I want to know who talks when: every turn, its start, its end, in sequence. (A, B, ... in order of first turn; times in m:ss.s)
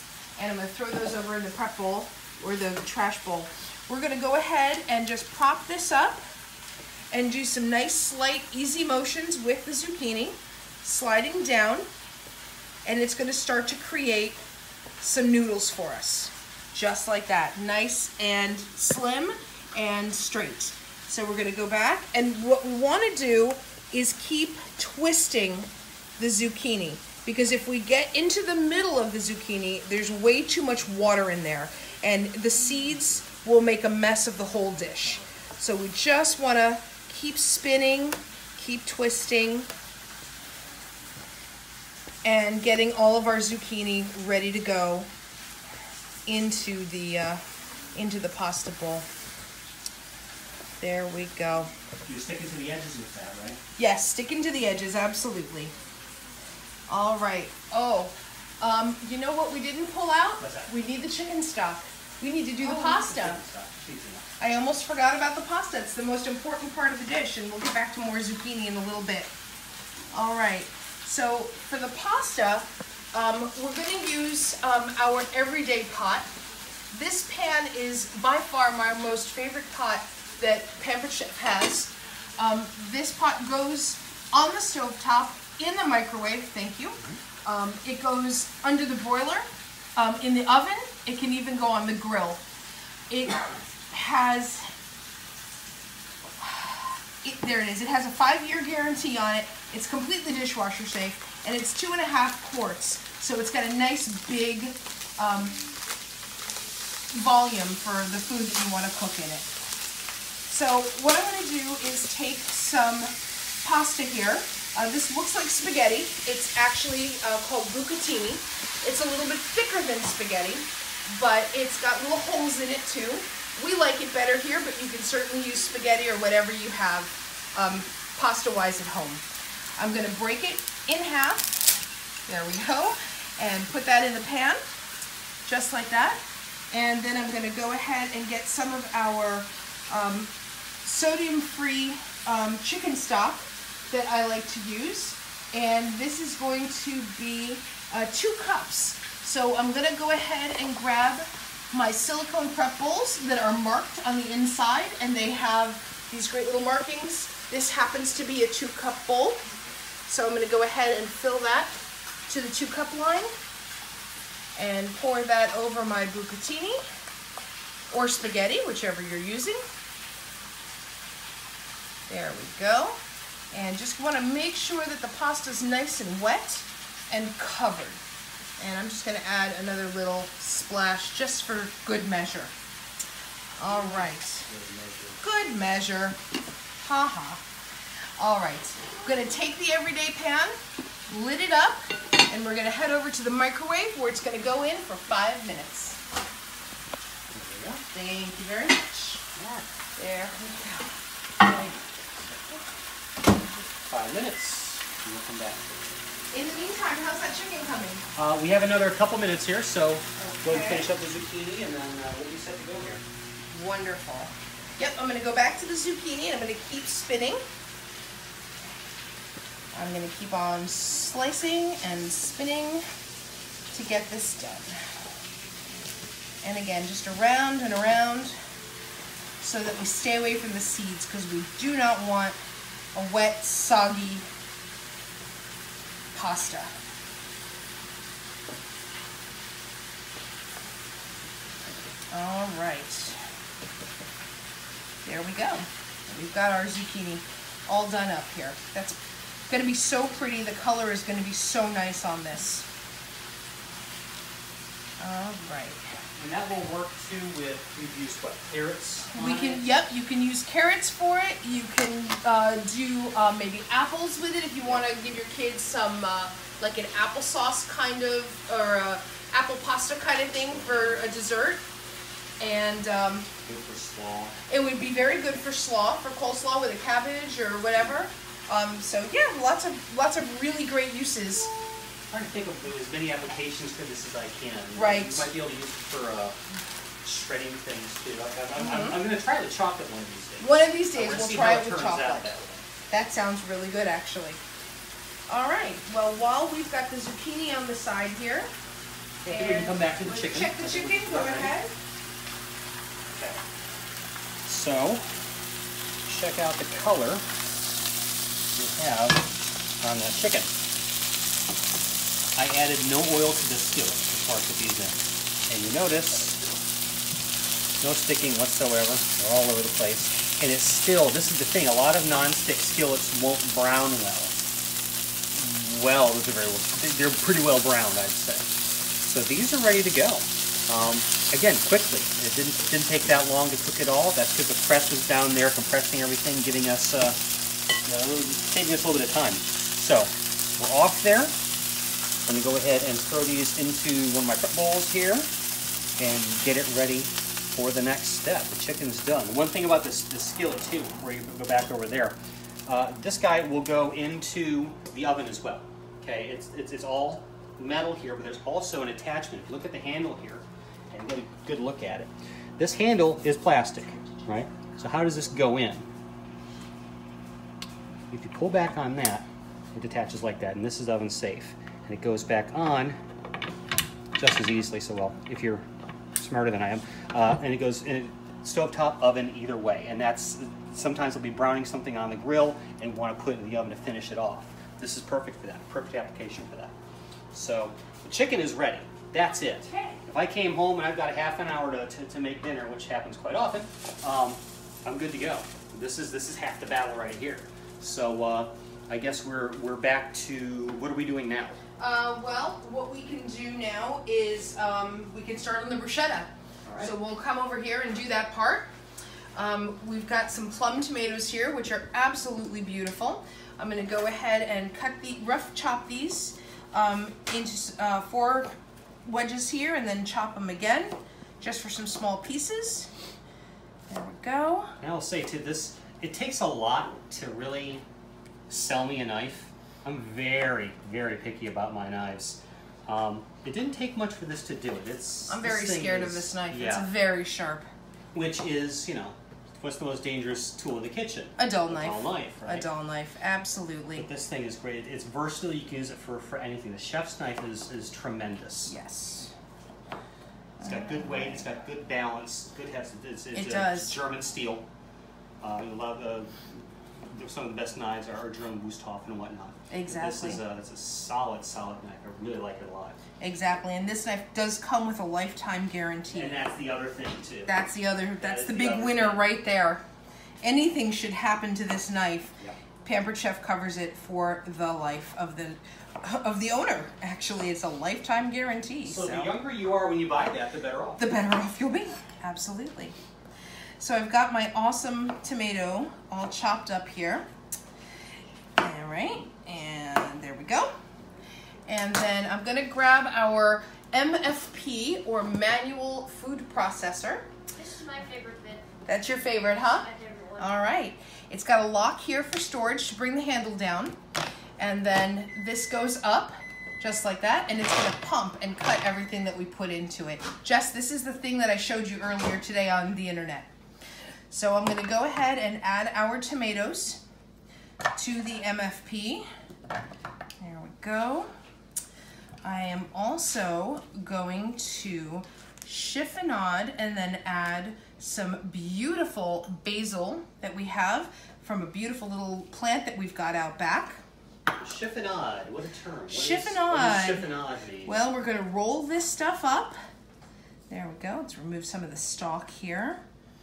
0:00.4-0:06.2 A
0:07.1-0:11.9 A
0:12.8-0:14.4 A
0:15.0-0:39.7 A
0:42.2-0:45.1 A
0:46.2-0:47.4 A
0:47.9-0:49.1 A
0:50.8-0:51.7 A
0:52.0-0:53.6 B
0:53.8-0:55.7 A
0:56.9-1:03.4 A
1:00.4-1:00.7 B
1:02.6-1:04.3 B
1:04.4-1:09.3 A
1:10.1-1:16.3 A
1:16.9-1:32.4 A
1:33.1-1:34.7 A
1:36.4-1:45.6 A
1:47.1-1:49.5 A
1:50.5-2:09.2 A
2:09.8-2:11.7 A
2:12.3-2:14.6 A
2:15.5-2:20.3 A
2:20.8-2:39.4 A
2:40.1-2:41.8 A
2:42.3-2:43.3 A
2:44.5-2:46.8 A
2:47.9-2:49.6 A
2:52.1-2:53.0 A
2:53.5-2:58.0 A
2:58.6-3:02.5 A
3:03.6-3:04.5 A
3:03.6-3:05.2 B
3:05.2-3:06.2 A
3:06.8-3:07.4 A
3:08.2-3:10.6 A
3:11.1-3:16.0 A
3:17.3-3:17.8 B
3:17.9-3:19.2 A
3:19.4-3:19.7 B
3:20.0-3:20.9 A
3:21.5-3:21.7 B
3:23.8-3:25.7 B
3:26.3-3:28.0 A
3:28.1-3:33.0 B
3:30.2-3:30.9 A
3:33.5-3:37.4 A
3:39.7-3:42.8 A
3:43.7-3:44.7 A
3:46.4-3:48.4 A
3:49.4-3:52.4 A
3:52.9-3:54.3 A
3:56.1-3:56.7 A
4:02.1-4:03.2 A
4:05.0-4:09.0 A
4:09.5-4:12.6 A
4:15.0-4:15.8 A
4:16.2-4:19.6 B
4:19.1-4:31.6 A
4:30.5-4:31.1 B
4:32.4-4:33.3 A
4:33.4-4:34.4 B
4:34.5-4:41.5 A
4:42.1-4:46.4 B
4:44.8-4:45.3 A
4:47.0-4:52.6 B
4:48.6-4:49.0 A
4:50.4-4:52.3 A
4:52.9-4:54.4 A
4:55.3-4:58.5 A
4:59.2-5:01.5 B
4:59.2-5:01.7 A
5:03.0-5:03.4 B
5:04.4-5:05.0 B
5:06.0-5:07.2 B
5:08.5-5:10.5 B
5:12.4-5:16.4 B
5:17.8-5:24.4 B
5:25.3-5:37.2 B
5:37.8-5:41.4 B
5:42.2-5:45.3 B
5:46.0-6:05.9 B
6:08.1-6:13.0 B
6:14.1-6:26.7 B
6:27.3-6:41.6 B
6:29.3-6:30.0 A
6:41.8-6:48.7 A
6:46.6-6:46.9 B
6:49.4-6:58.5 A
6:59.0-7:02.9 A
7:03.9-7:04.7 A
7:04.8-7:07.8 B
7:08.5-7:16.9 B
7:15.3-7:17.7 A
7:18.1-7:22.7 B
7:21.4-7:24.1 A
7:23.9-7:28.7 B
7:28.6-7:29.3 A
7:30.6-7:31.5 A
7:30.6-7:34.6 B
7:33.3-7:33.9 A
7:35.4-7:43.0 B
7:39.7-7:40.4 A
7:43.2-7:46.4 A
7:46.1-7:47.6 B
7:47.5-7:49.8 A
7:48.2-7:49.3 B
7:50.4-7:59.3 A
7:58.8-8:01.0 B
8:01.0-8:03.0 A
8:03.8-8:07.3 A
8:08.6-8:10.7 A
8:11.6-8:17.3 A
8:17.5-8:18.8 C
8:18.9-8:24.0 A
8:19.6-8:20.7 C
8:24.6-8:33.5 A
8:34.3-8:37.0 A
8:38.0-8:39.2 A
8:40.4-8:41.3 A
8:42.4-8:54.0 A
8:54.6-8:58.0 B
8:56.1-8:57.3 A
8:57.8-8:59.8 A
9:00.7-9:03.0 A